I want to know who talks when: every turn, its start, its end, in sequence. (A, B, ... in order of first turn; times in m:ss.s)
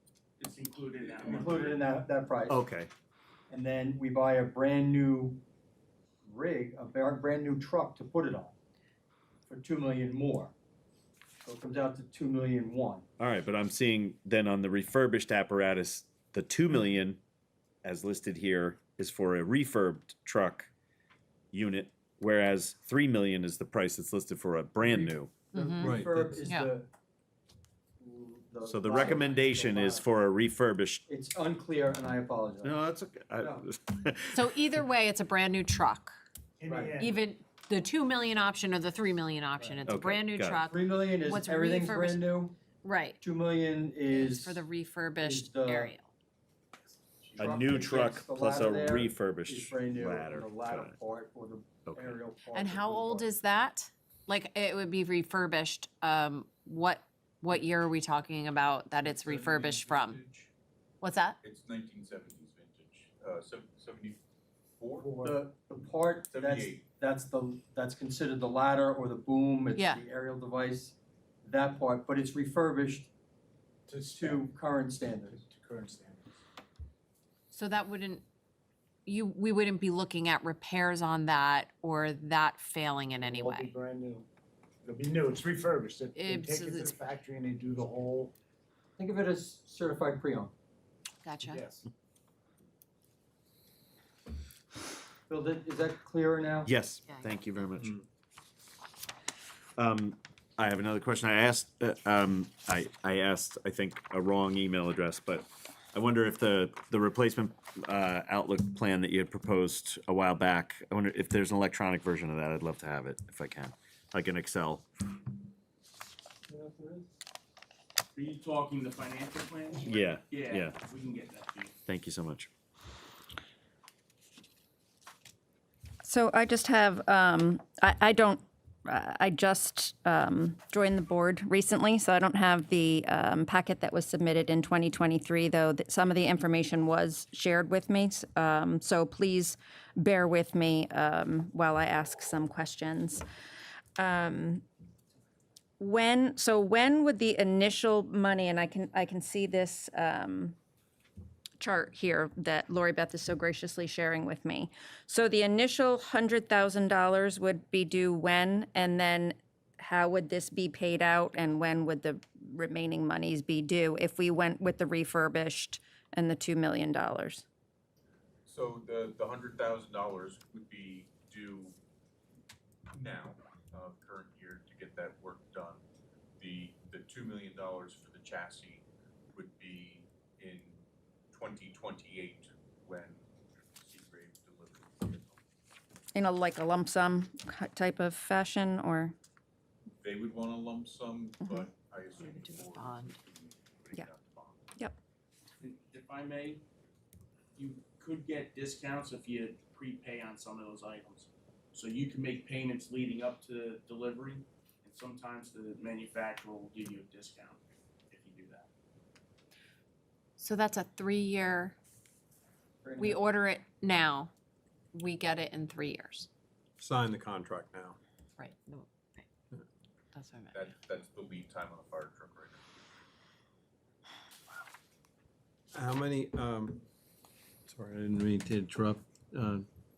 0:00.4-0:01.8 A
0:01.2-0:02.6 B
0:02.5-0:02.9 C
0:03.5-0:05.4 B
0:06.2-0:08.6 B
0:09.5-0:10.5 B
0:11.4-0:13.0 B
0:13.2-0:17.2 C
0:17.8-0:20.7 C
0:21.5-0:25.4 C
0:24.8-0:26.9 B
0:25.5-0:26.7 D
0:25.8-0:26.4 E
0:28.0-0:30.0 B
0:28.6-0:31.0 C
0:31.1-0:32.7 B
0:32.6-0:34.8 C
0:33.4-0:33.6 B
0:34.3-0:36.2 D
0:36.6-0:37.2 F
0:36.7-0:37.0 B
0:37.0-0:42.3 D
0:39.8-0:40.6 C
0:40.7-0:42.6 B
0:42.8-0:43.2 D
0:43.2-0:44.6 B
0:44.1-0:46.1 D
0:45.2-0:45.9 B
0:47.2-0:47.5 G
0:47.4-0:51.0 C
0:47.4-0:53.4 B
0:51.9-0:52.2 C
0:52.5-1:00.2 D
0:59.0-1:00.5 G
1:01.0-1:01.4 D
1:01.4-1:04.2 G
1:04.8-1:05.1 G
1:05.0-1:05.4 F
1:05.2-1:13.1 B
1:06.3-1:06.8 G
1:09.8-1:10.0 D
1:13.9-1:14.5 F
1:14.2-1:15.4 B
1:15.1-1:16.4 F
1:17.5-1:18.2 D
1:19.1-1:23.7 D
1:23.2-1:24.3 F
1:24.8-1:28.3 F
1:26.1-1:27.0 D
1:29.0-1:30.5 B
1:31.2-1:31.6 D
1:31.5-1:31.9 F
1:35.3-1:36.7 B
1:36.7-1:38.0 C
1:37.1-1:37.4 D
1:39.8-1:54.9 C
1:56.5-1:57.0 B
1:58.1-2:01.8 A
1:59.9-2:00.8 C
2:01.9-2:02.5 C
2:06.0-2:23.2 H
2:24.0-2:24.6 H
2:25.8-2:30.6 H
2:31.6-2:47.4 H
2:48.5-2:51.8 G
2:52.9-2:55.8 G
2:56.4-3:00.8 G
3:01.3-3:03.2 G
3:03.8-3:05.4 G
3:06.2-3:09.1 H
3:10.0-3:14.7 G
3:11.4-3:11.7 H
3:12.2-3:13.2 D
3:15.6-3:16.6 A
3:17.6-3:28.7 A
3:30.4-3:31.8 D
3:32.8-3:33.2 B
3:33.0-3:34.3 D
3:34.9-3:36.3 D
3:36.8-3:38.0 E
3:38.4-3:39.3 D
3:40.1-3:40.8 D
3:40.5-3:42.6 G
3:45.7-3:46.8 E
3:47.7-3:49.7 E